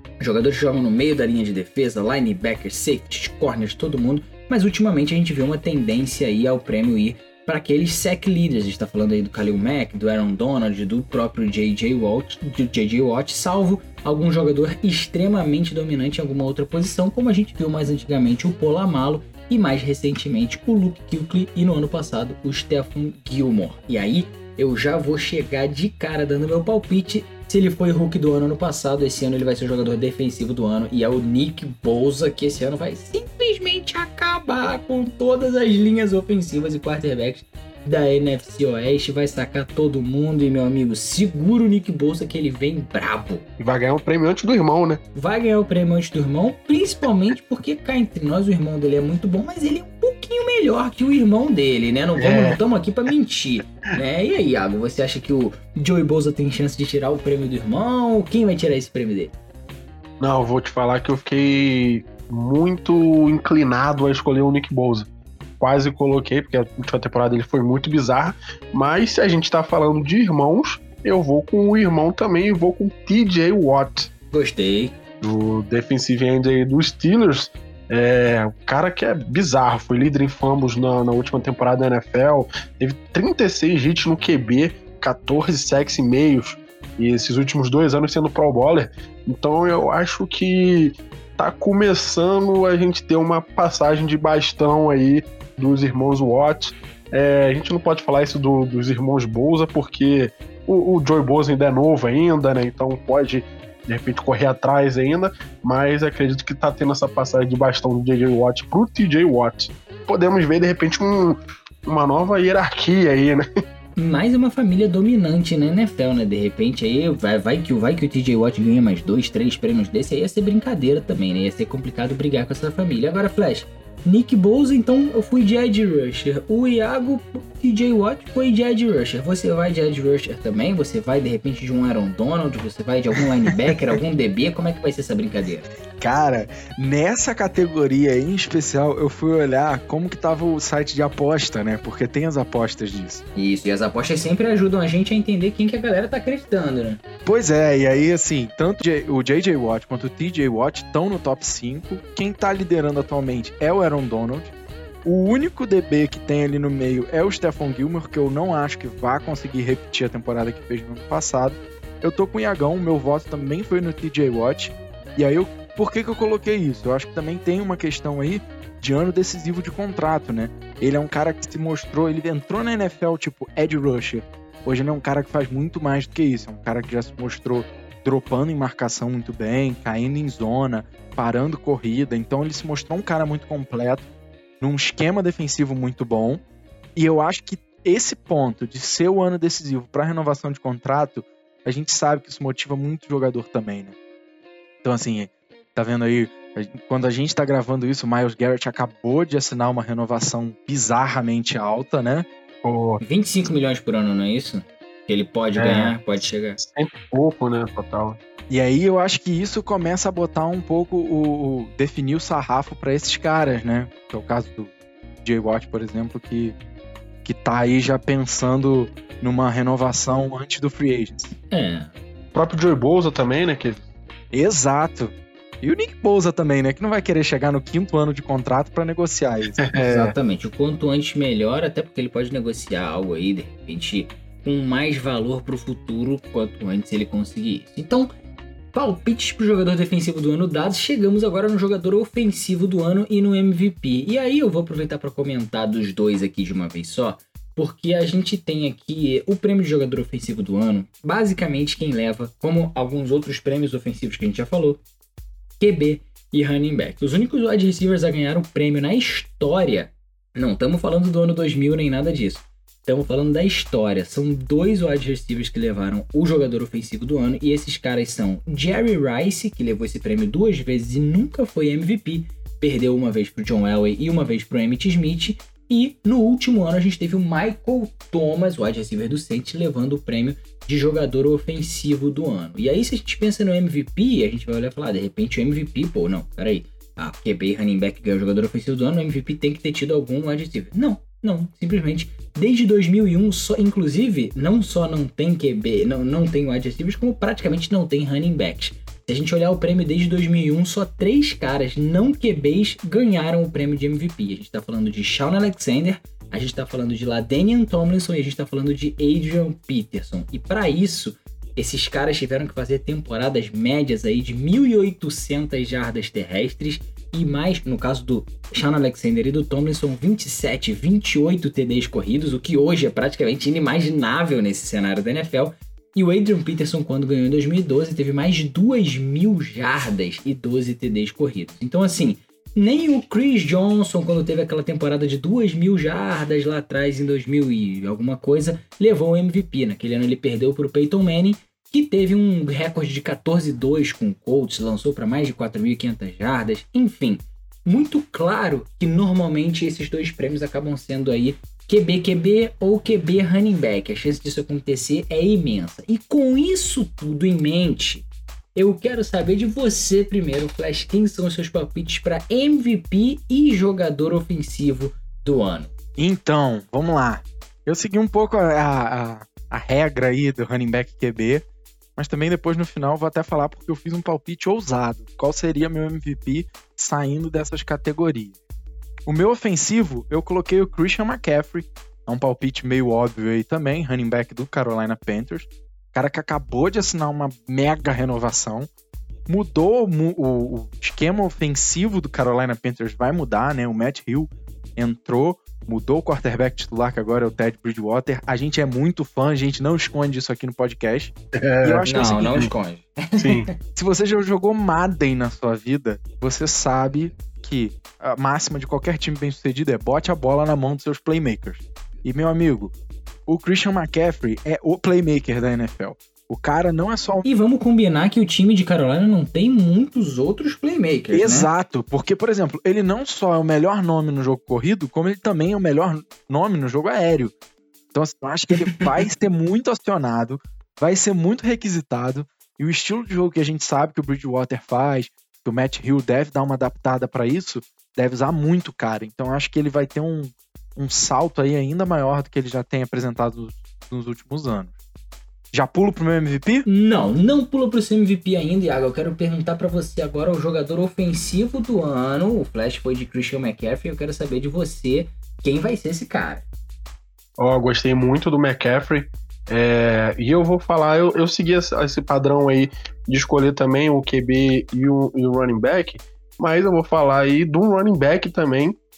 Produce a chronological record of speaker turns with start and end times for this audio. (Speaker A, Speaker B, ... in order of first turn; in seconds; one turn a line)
Speaker A: 0.2-43.4
Speaker B: 43.6-45.0
Speaker A: 45.1-59.3
Speaker B: 52.2-52.6
Speaker B: 60.2-65.1
Speaker B: 65.6-74.1
Speaker A: 74.3-74.9
Speaker B: 75.2-113.4
Speaker A: 114.0-135.7
Speaker C: 136.0-143.2
Speaker A: 143.3-147.0
Speaker C: 147.2-154.5
Speaker C: 155.0-184.1
Speaker C: 184.6-186.4
Speaker C: 186.9-193.9
Speaker C: 194.8-202.3
Speaker B: 202.6-203.0
Speaker A: 203.0-206.6
Speaker B: 205.6-205.9
Speaker B: 206.6-208.2
Speaker C: 208.5-214.7
Speaker C: 215.2-216.6
Speaker C: 217.2-221.3
Speaker A: 221.5-221.9
Speaker B: 222.3-223.8
Speaker C: 224.3-229.7
Speaker B: 229.6-230.1
Speaker A: 229.7-238.1
Speaker A: 238.7-254.8
Speaker A: 255.6-365.7
Speaker C: 366.0-371.4
Speaker C: 372.0-378.4
Speaker C: 379.1-388.7
Speaker C: 389.3-402.4
Speaker B: 401.4-402.5
Speaker A: 401.9-403.5
Speaker B: 403.2-403.5
Speaker C: 403.7-412.7
Speaker C: 413.3-417.2
Speaker A: 417.2-421.5
Speaker C: 421.1-427.3
Speaker C: 427.9-444.7
Speaker C: 445.5-446.6
Speaker A: 446.6-456.4
Speaker B: 457.4-468.8